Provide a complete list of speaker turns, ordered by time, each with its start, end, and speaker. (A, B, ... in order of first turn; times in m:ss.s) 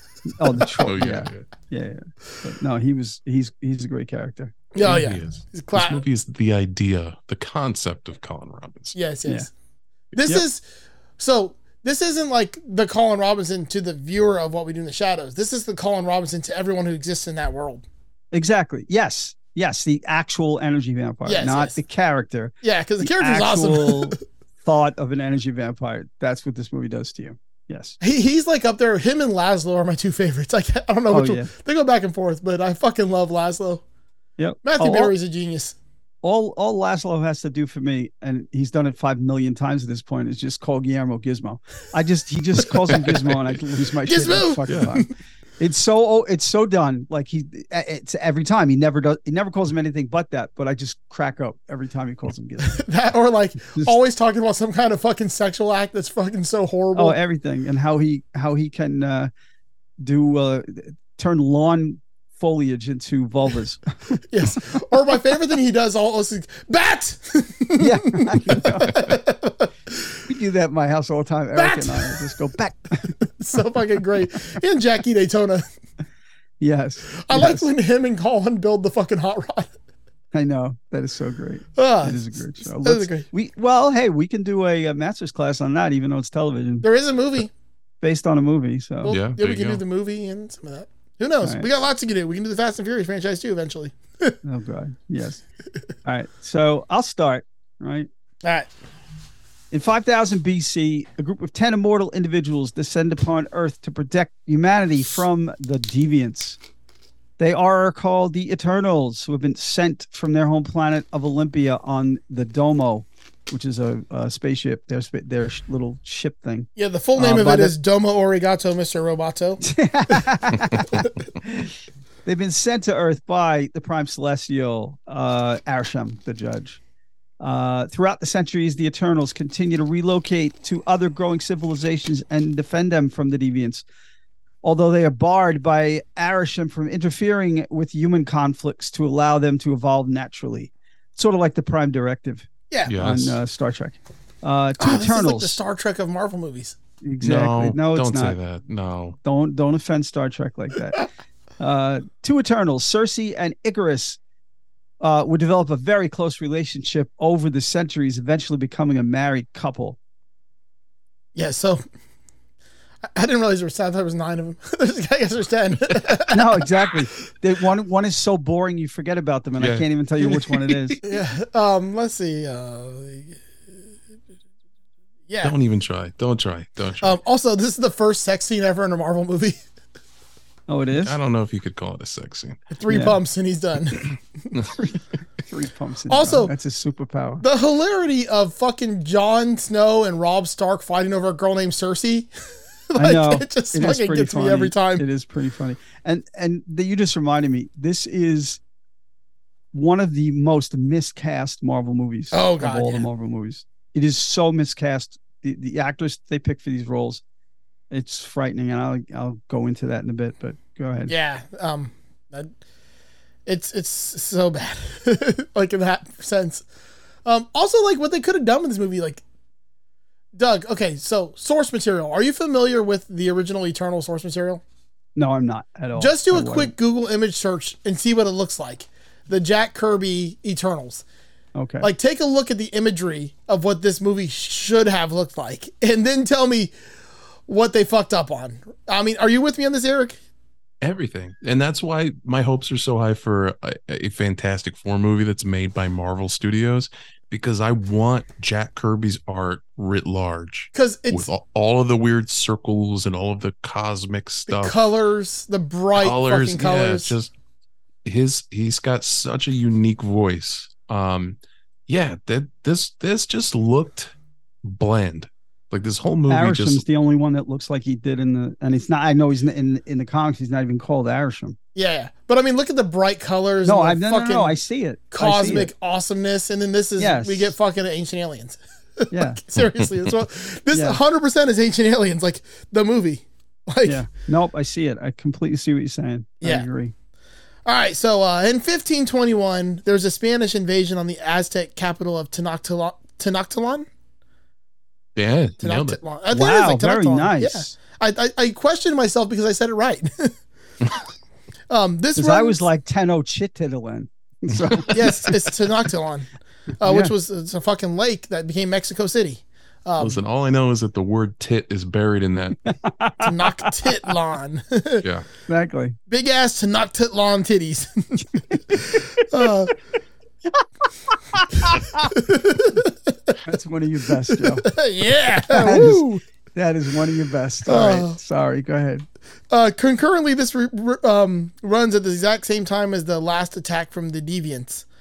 0:00.3-0:04.6 A
0:00.8-0:01.5 B
0:04.7-0:06.0 C
0:04.8-0:08.9 B
0:08.9-0:09.5 C
0:10.1-0:10.6 C
0:11.2-0:17.8 C
0:18.3-0:28.0 A
0:21.2-0:21.8 C
0:22.6-0:24.2 C
0:28.0-0:33.8 C
0:31.1-0:31.5 A
0:34.4-0:35.1 A
0:34.6-0:35.8 C
0:36.2-0:45.1 A
0:42.9-0:43.3 B
0:44.0-0:45.1 C
0:45.6-0:52.8 A
0:52.6-0:57.2 C
0:56.9-0:59.3 A
1:00.0-1:04.2 A
1:04.3-1:09.7 C
1:07.8-1:09.0 A
1:10.2-1:13.2 A
1:11.5-1:12.4 C
1:13.4-1:15.6 C
1:16.6-1:17.6 A
1:17.2-1:19.7 C
1:20.3-1:26.8 A
1:21.8-1:23.3 C
1:26.8-1:27.5 C
1:28.0-1:29.2 A
1:29.0-1:34.3 C
1:29.1-1:29.8 B
1:34.4-1:35.4 A
1:36.0-1:38.1 A
1:38.4-1:38.7 C
1:39.7-1:46.6 A
1:47.4-1:57.7 A
1:56.8-1:59.6 C
1:59.6-2:01.7 A
2:02.2-2:06.8 A
2:07.4-2:13.8 A
2:14.6-2:25.6 A
2:22.9-2:23.4 B
2:24.8-2:26.8 C
2:27.0-2:28.4 A
2:27.2-2:29.2 B
2:29.2-2:31.1 A
2:31.6-2:34.2 A
2:35.0-2:40.0 A
2:41.3-2:41.8 C
2:43.1-2:46.9 C
2:46.3-2:51.0 A
2:49.6-2:51.1 B
2:51.0-2:53.4 C
2:55.3-2:55.5 C
2:55.4-2:57.2 B
2:57.0-2:59.6 C
3:00.7-3:01.2 A
3:01.0-3:02.6 B
3:02.7-3:04.8 C
3:02.9-3:03.2 A
3:05.5-3:07.4 A
3:06.1-3:06.5 C
3:07.4-3:12.3 C
3:12.9-3:15.0 C
3:13.0-3:18.6 A
3:19.7-3:27.2 A
3:22.3-3:23.1 C
3:27.9-3:31.1 A
3:31.1-3:32.5 C
3:33.4-3:36.6 C
3:37.2-3:39.2 C
3:40.4-3:44.6 C
3:45.2-3:46.7 A
3:46.0-3:51.0 C
3:51.6-3:51.9 A
3:51.8-3:56.7 C
3:57.5-4:00.2 C
4:00.8-4:14.8 B
4:10.7-4:11.3 C
4:14.5-4:17.1 C
4:16.0-4:17.3 B
4:18.0-4:24.1 B
4:24.6-4:26.8 B
4:26.3-4:31.6 A
4:31.7-4:34.5 C
4:33.6-4:35.7 A
4:35.1-4:44.0 C
4:37.0-4:37.5 A
4:39.1-4:39.4 A
4:40.7-4:41.0 A
4:43.8-4:46.9 A
4:47.6-4:53.9 C
4:55.2-4:56.0 B
4:55.6-5:00.3 C
4:56.3-4:57.7 A
5:01.7-5:02.6 C
5:02.2-5:05.1 A
5:04.5-5:04.8 B
5:04.9-5:06.3 C
5:06.8-5:10.2 C
5:06.8-5:07.1 A
5:10.0-5:12.6 B
5:12.6-5:13.9 A
5:13.2-5:15.0 C
5:15.5-5:16.0 A
5:16.1-5:19.7 C
5:18.5-5:19.5 A
5:21.1-5:22.1 A
5:22.1-5:23.4 C
5:23.4-5:24.7 A
5:24.3-5:26.2 C
5:25.5-5:29.0 A
5:27.6-5:28.2 C
5:29.5-5:34.8 C